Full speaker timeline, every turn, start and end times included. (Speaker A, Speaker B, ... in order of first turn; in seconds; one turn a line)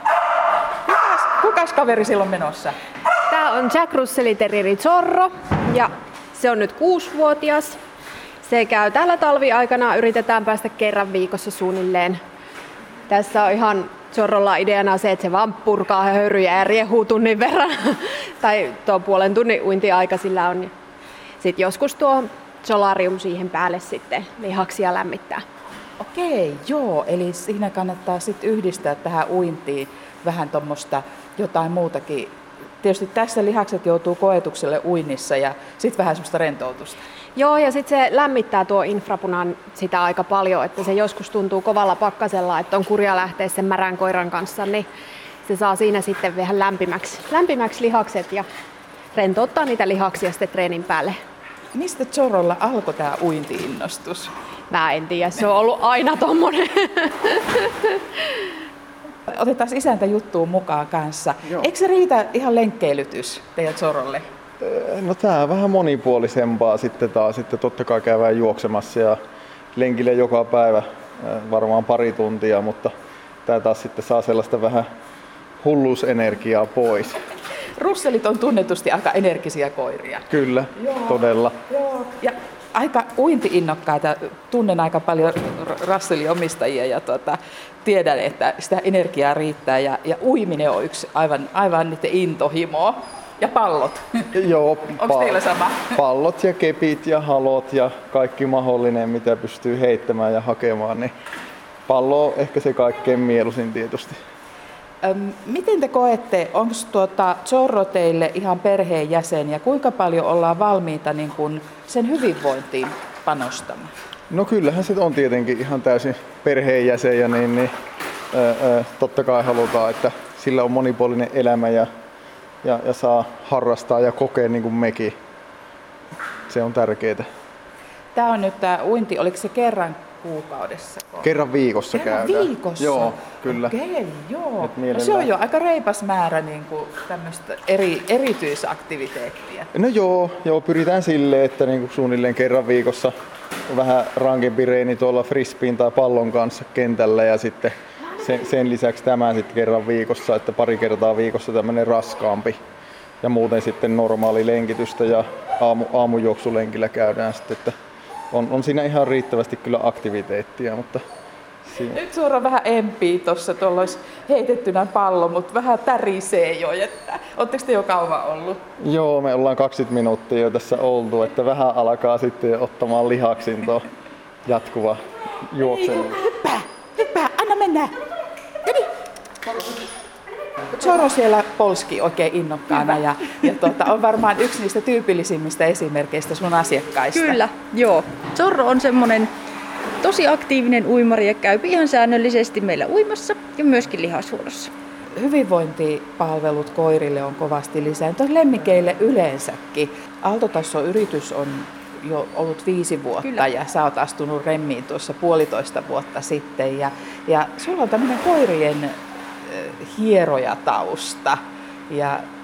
Speaker A: 0.8-2.7
Speaker B: 3.3-7.8
Speaker B: 8.4-12.2
Speaker B: 13.1-20.7
Speaker B: 21.4-25.4
Speaker A: 26.0-37.0
Speaker B: 37.4-44.9
Speaker B: 45.5-48.5
Speaker B: 49.1-51.2
Speaker A: 51.7-54.3
Speaker B: 54.7-58.4
Speaker A: 59.3-64.2
Speaker C: 64.6-69.2
Speaker C: 69.7-72.9
Speaker C: 73.4-74.9
Speaker C: 75.6-77.1
Speaker A: 77.8-80.2
Speaker C: 80.3-81.5
Speaker A: 80.8-94.3
Speaker C: 94.3-95.4
Speaker A: 94.9-96.0
Speaker C: 95.9-101.1
Speaker C: 101.9-104.2
Speaker A: 105.0-113.9
Speaker C: 114.3-117.7
Speaker C: 118.3-121.9
Speaker C: 122.6-125.1
Speaker C: 126.5-127.3
Speaker A: 128.1-131.3
Speaker C: 131.2-133.7
Speaker A: 131.9-139.7
Speaker C: 134.6-135.3
Speaker C: 139.7-143.1
Speaker C: 143.7-152.6
Speaker C: 153.2-157.7
Speaker C: 158.3-161.0
Speaker C: 161.7-162.0
Speaker A: 161.9-168.6
Speaker C: 168.8-173.8
Speaker C: 174.4-175.0
Speaker C: 175.5-176.2
Speaker A: 175.7-177.9
Speaker A: 180.7-187.4
Speaker D: 187.1-189.3
Speaker D: 190.0-194.7
Speaker A: 195.1-211.4
Speaker A: 211.9-212.2